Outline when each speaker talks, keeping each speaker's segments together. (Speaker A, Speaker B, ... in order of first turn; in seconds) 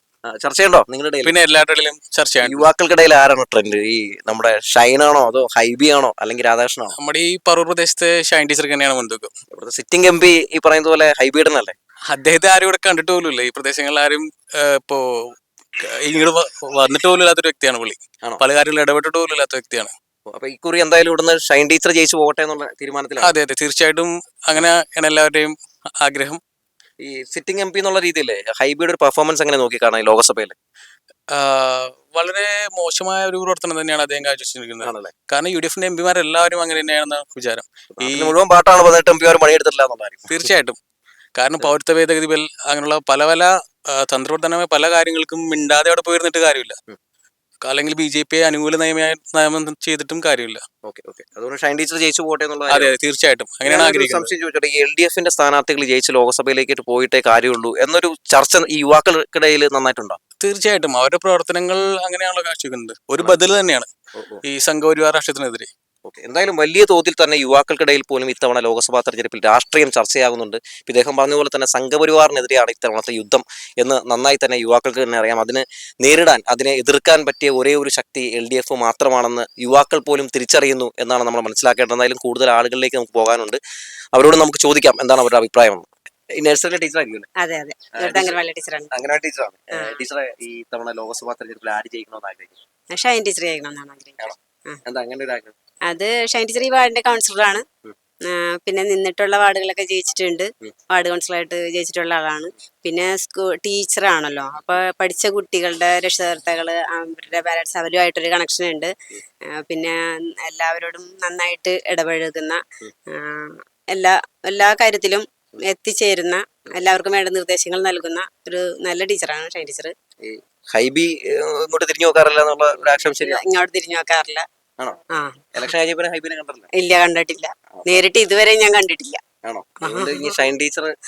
Speaker A: 0.3-1.3, 2.4-7.0, 9.5-11.8, 20.3-23.3, 27.0-30.6, 34.8-35.1, 38.0-40.3, 50.9-53.0, 53.6-60.2, 66.1-83.6, 84.1-87.3, 88.0-92.6, 94.2-95.5, 120.2-123.4, 125.6-126.7, 127.8-128.2, 129.4-130.9
Speaker B: 1.2-2.7, 7.0-9.3, 12.1-15.0, 15.8-19.9, 23.2-26.4, 31.3-38.3, 40.3-40.8, 41.4-46.8, 47.6-50.6, 52.7-54.3, 60.4-63.9, 64.5-65.7
Speaker C: 87.4-88.9, 89.8-90.0, 92.9-94.8, 95.9-97.7, 98.3-108.9, 109.5-119.9, 123.0-124.5, 125.2-125.7, 126.7-129.2, 129.8-130.5